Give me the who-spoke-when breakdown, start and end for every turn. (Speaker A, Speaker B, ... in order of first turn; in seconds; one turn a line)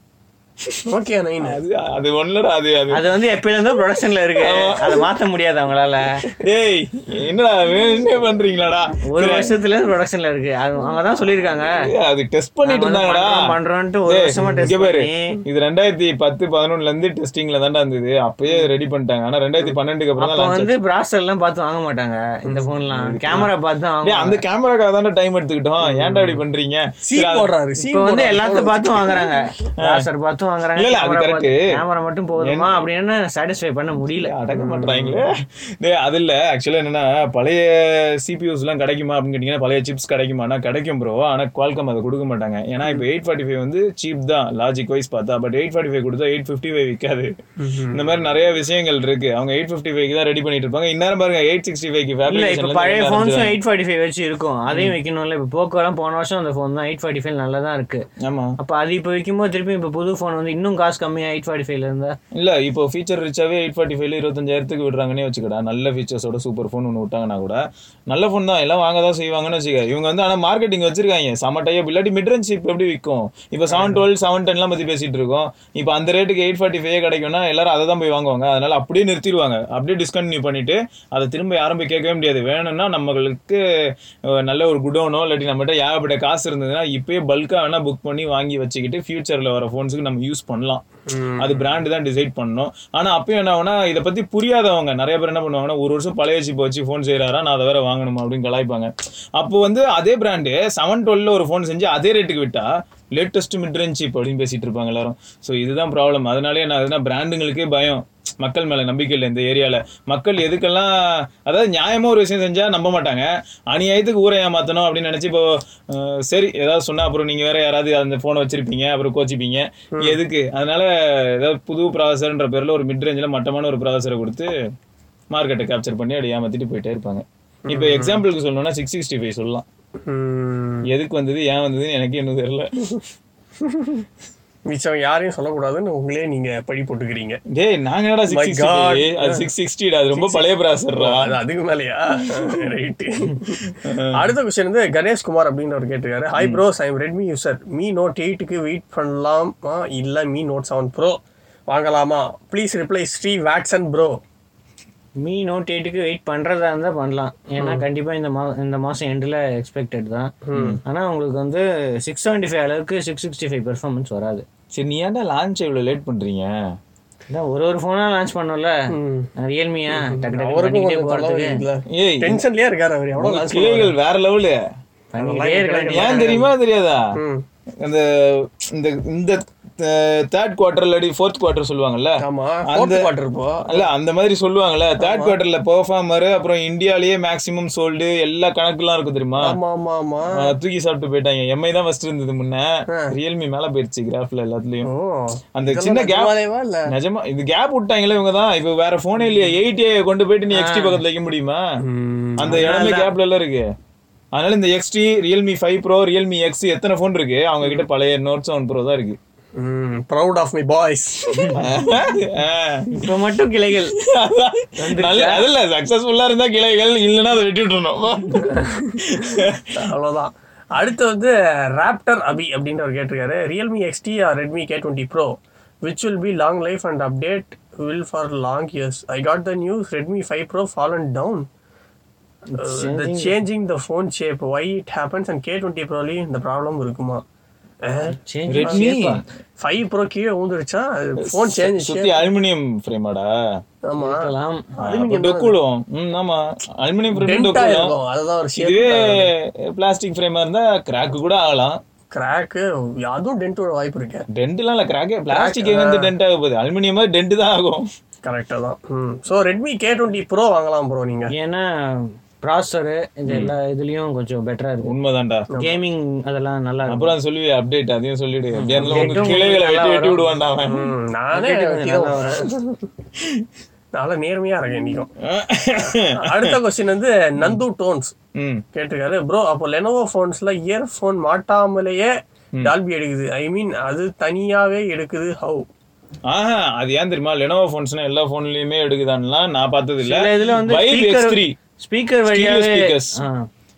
Speaker A: 0.9-1.6
Speaker B: 1.4-3.1
Speaker C: 2.9-6.1
Speaker B: 4.4-5.1
Speaker B: 6.4-9.5
Speaker C: 9.1-11.8
Speaker B: 11.8-13.4
Speaker C: 12.6-15.4
Speaker B: 14.1-20.7
Speaker A: 14.4-14.7
Speaker C: 20.2-24.4
Speaker B: 22.9-23.5
Speaker B: 24.0-27.5
Speaker A: 25.8-26.4
Speaker A: 27.0-29.2
Speaker C: 27.8-34.3
Speaker B: 30.7-31.6
Speaker B: 32.4-32.8
Speaker B: 34.0-47.3
Speaker A: 34.5-35.2
Speaker A: 47.6-48.1
Speaker B: 47.9-53.5
Speaker C: 52.3-58.0
Speaker B: 54.7-54.9
Speaker B: 58.2-58.5
Speaker C: 58.6-62.2
Speaker B: 62.3-83.6
Speaker A: 73.7-74.0
Speaker B: 84.4-90.8
Speaker A: 91.1-91.8
Speaker B: 91.4-110.9
Speaker B: 111.5-124.5
Speaker B: 125.3-129.6
Speaker A: 127.7-128.2
Speaker A: 130.1-130.8
Speaker B: 130.9-132.9
Speaker A: 134.7-137.4
Speaker B: 137.5-141.3
Speaker A: 138.3-139.5
Speaker A: 140.1-154.2
Speaker B: 143.8-144.2
Speaker C: 155.2-160.3
Speaker A: 157.6-157.8
Speaker A: 160.5-160.8
Speaker C: 160.8-164.4
Speaker B: 164.7-166.5
Speaker C: 167.3-168.7
Speaker A: 168.9-169.3
Speaker C: 169.4-171.6
Speaker A: 169.9-173.9
Speaker B: 171.9-172.4
Speaker B: 173.2-174.6
Speaker C: 175.1-176.5
Speaker A: 175.1-176.4
Speaker B: 175.9-177.1
Speaker A: 177.1-177.4
Speaker B: 177.8-183.1
Speaker A: 182.2-183.9
Speaker B: 183.7-189.6
Speaker A: 185.0-185.3
Speaker A: 189.4-190.4
Speaker B: 190.4-194.9
Speaker A: 194.8-196.9
Speaker B: 195.6-196.3
Speaker B: 196.9-201.6
Speaker A: 199.2-199.5
Speaker C: 200.5-201.0
Speaker A: 201.8-202.7
Speaker B: 202.4-203.7
Speaker C: 202.5-203.1
Speaker B: 204.3-209.2
Speaker A: 207.6-207.9
Speaker A: 209.6-211.5
Speaker C: 211.3-211.8
Speaker B: 211.6-212.9
Speaker C: 212.9-213.9
Speaker B: 214.0-219.7
Speaker C: 214.8-215.5
Speaker A: 218.5-218.7
Speaker A: 219.7-225.3
Speaker A: 225.8-231.4
Speaker C: 232.5-233.3
Speaker A: 232.6-237.2
Speaker A: 237.8-238.8
Speaker C: 238.2-239.2
Speaker B: 238.5-239.2
Speaker A: 239.6-242.3
Speaker B: 241.2-243.3
Speaker A: 243.9-245.5
Speaker C: 244.0-244.7
Speaker B: 244.8-247.9
Speaker A: 247.1-249.3
Speaker B: 248.6-251.8
Speaker A: 252.1-254.2
Speaker B: 254.3-257.9
Speaker A: 255.3-256.1
Speaker A: 258.2-261.3
Speaker C: 261.3-264.9
Speaker B: 264.8-265.5
Speaker C: 265.6-267.1
Speaker B: 266.9-270.9
Speaker C: 268.5-270.2
Speaker A: 268.8-269.3
Speaker A: 270.6-272.8
Speaker C: 271.3-272.5
Speaker A: 273.9-275.1
Speaker B: 275.2-276.6
Speaker A: 275.8-278.1
Speaker B: 278.4-278.6
Speaker A: 278.7-282.1
Speaker A: 282.6-285.6
Speaker B: 286.3-291.6
Speaker C: 290.0-293.5
Speaker B: 292.2-293.2